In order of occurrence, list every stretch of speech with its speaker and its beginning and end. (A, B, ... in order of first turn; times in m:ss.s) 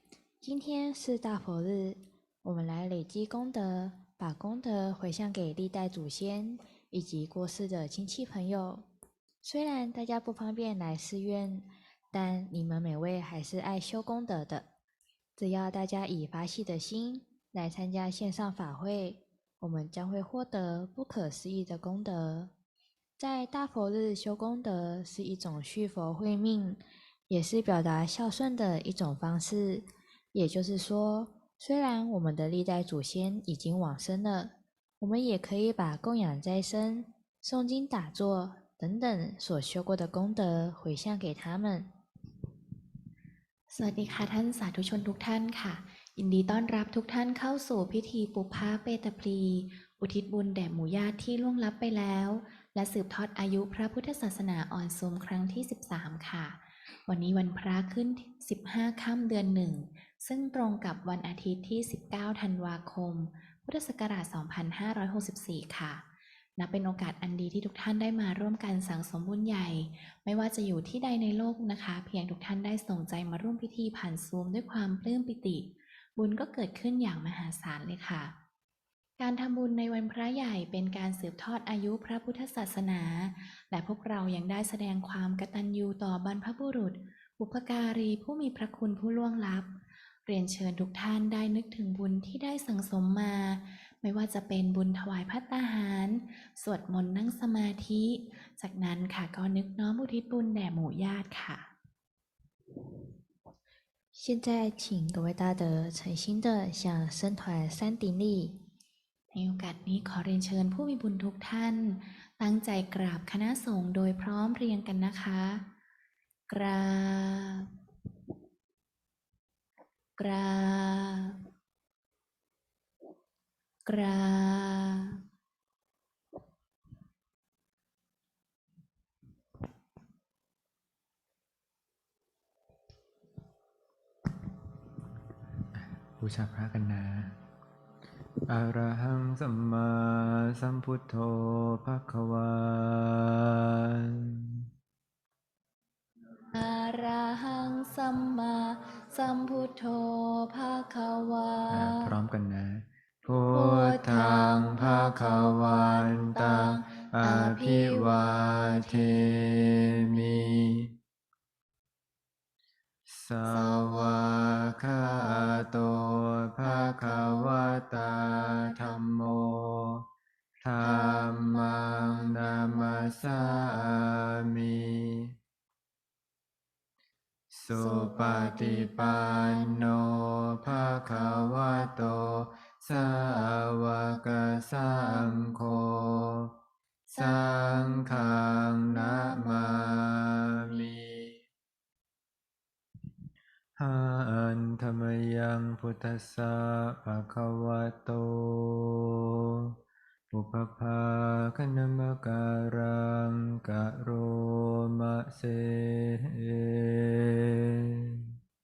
0:00.4-0:08.8 A
0:09.4-0:14.7 A
0:15.4-0:22.5 A
0:23.2-0:41.9 A
0:43.7-1:06.0 B
1:06.6-1:18.3 B
1:19.2-1:29.7 B
1:30.2-1:41.7 B
1:44.1-1:48.5 A
1:49.3-1:55.6 B
1:56.5-1:57.7 B
2:00.2-2:01.4 B
2:03.8-2:05.2 B
2:16.2-2:17.4 C
2:18.5-2:24.6 C
2:26.5-2:32.1 B
2:31.7-2:40.9 C
2:33.5-2:40.3 B
2:43.1-2:50.0 C
2:43.5-2:45.6 B
2:46.6-2:47.8 B
2:48.4-2:49.0 B
2:50.6-2:55.3 C
2:50.8-2:53.2 B
2:57.5-3:06.5 C
2:57.7-2:59.9 B
3:07.2-3:11.3 C
3:07.2-3:10.8 B
3:13.8-3:19.7 C
3:20.3-3:28.2 C